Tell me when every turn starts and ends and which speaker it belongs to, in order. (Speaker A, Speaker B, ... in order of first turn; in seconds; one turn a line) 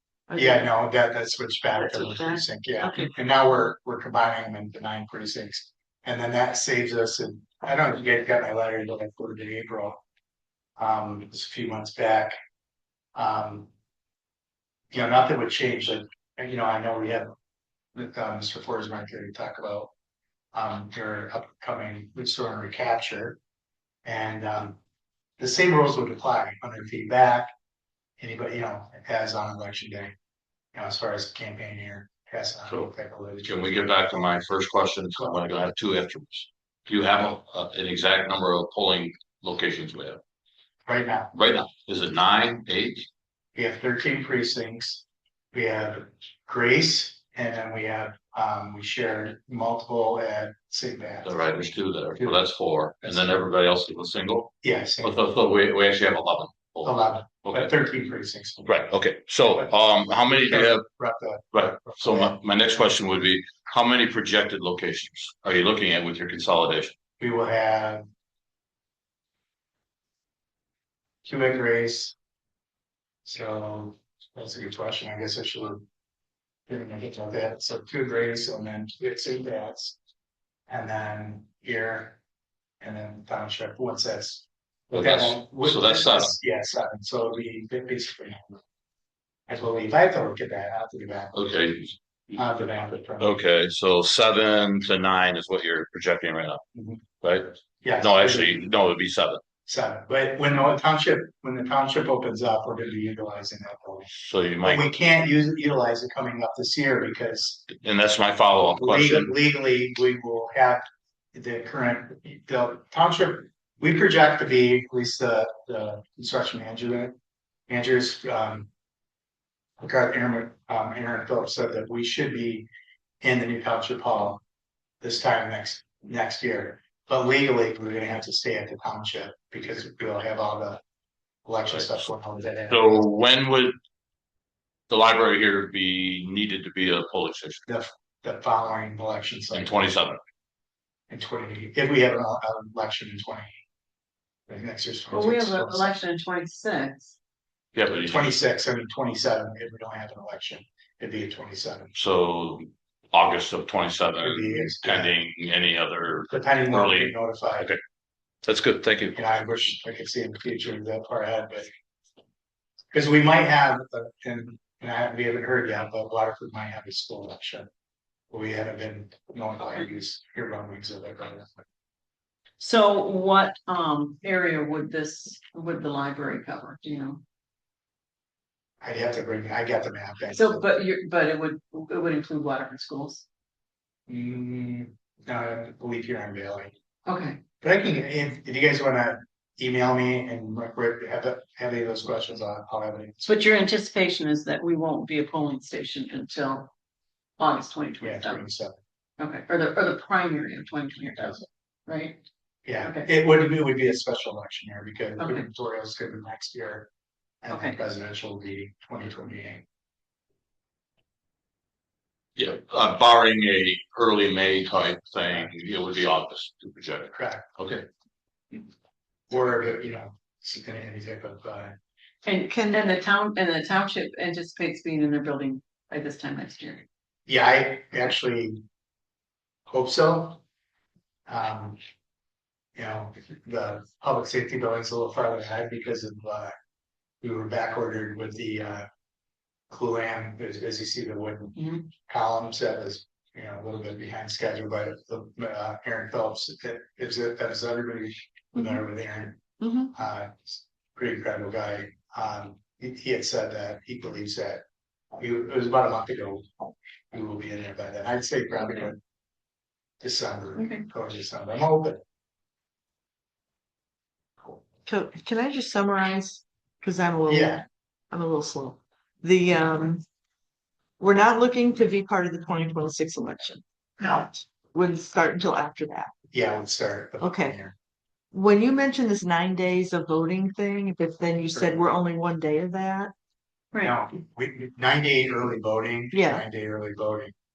Speaker A: 0.3-0.7
Speaker B: 0.3-10.0
Speaker A: 1.8-3.1
Speaker B: 10.8-12.3
Speaker B: 13.1-13.7
Speaker B: 14.9-17.3
Speaker B: 17.9-19.9
Speaker B: 20.5-23.4
Speaker B: 24.1-24.8
Speaker B: 25.4-27.5
Speaker B: 28.2-30.1
Speaker B: 30.7-33.8
Speaker C: 33.5-40.2
Speaker B: 40.9-41.3
Speaker C: 41.3-43.1
Speaker B: 43.5-51.4
Speaker C: 51.2-57.7
Speaker B: 53.0-53.3
Speaker B: 54.6-55.2
Speaker B: 56.8-58.7
Speaker C: 58.6-60.9
Speaker B: 59.5-62.4
Speaker C: 61.5-66.9
Speaker B: 67.2-68.0
Speaker B: 71.2-72.1
Speaker B: 73.2-75.8
Speaker B: 76.7-80.0
Speaker B: 80.7-82.2
Speaker B: 82.8-88.6
Speaker C: 84.9-86.3
Speaker B: 89.5-91.4
Speaker C: 91.3-92.0
Speaker B: 92.3-93.4
Speaker C: 93.2-96.6
Speaker B: 96.8-97.0
Speaker C: 97.2-99.4
Speaker B: 97.8-98.7
Speaker B: 99.7-104.1
Speaker C: 104.2-104.9
Speaker B: 104.6-107.7
Speaker C: 107.7-109.3
Speaker B: 108.7-110.8
Speaker B: 111.3-117.1
Speaker B: 117.7-118.7
Speaker B: 119.8-122.7
Speaker B: 123.2-124.4
Speaker B: 125.0-130.8
Speaker B: 131.4-133.0
Speaker C: 132.7-133.8
Speaker C: 134.9-137.6
Speaker B: 137.7-139.8
Speaker C: 139.5-140.2
Speaker B: 141.1-143.6
Speaker B: 144.5-145.9
Speaker D: 145.1-147.2
Speaker C: 147.7-148.3
Speaker B: 148.0-151.9
Speaker C: 151.9-157.8
Speaker B: 154.2-155.2
Speaker B: 156.3-157.7
Speaker C: 158.4-159.2
Speaker B: 159.2-161.7
Speaker B: 162.9-167.7
Speaker B: 168.3-171.6
Speaker D: 172.6-177.2
Speaker B: 178.8-180.7
Speaker D: 180.3-183.2
Speaker B: 184.1-186.7
Speaker D: 187.1-187.4
Speaker B: 187.6-193.4
Speaker D: 193.2-196.7
Speaker D: 197.4-198.5
Speaker B: 198.0-198.8
Speaker D: 199.2-202.2
Speaker B: 201.2-201.4
Speaker B: 202.7-206.9
Speaker D: 202.8-203.1
Speaker D: 205.2-205.5
Speaker B: 207.4-209.6
Speaker D: 207.5-207.8
Speaker C: 212.3-217.8
Speaker B: 217.1-217.5
Speaker B: 219.3-221.8
Speaker D: 222.2-226.8
Speaker A: 222.5-222.8
Speaker B: 227.3-228.6
Speaker B: 229.7-230.4
Speaker B: 231.3-231.8
Speaker B: 232.8-236.5
Speaker B: 237.2-238.8
Speaker B: 239.7-254.6
Speaker D: 241.6-241.8
Speaker A: 248.6-248.8
Speaker A: 249.6-249.9
Speaker B: 255.2-256.4
Speaker B: 257.1-259.0
Speaker B: 260.0-262.0
Speaker D: 260.6-260.9
Speaker A: 264.8-270.0
Speaker B: 267.3-267.6
Speaker A: 271.0-276.1
Speaker B: 276.3-277.8
Speaker A: 277.2-277.6
Speaker A: 278.3-283.1
Speaker D: 283.7-284.0
Speaker B: 283.8-287.3
Speaker A: 286.1-286.4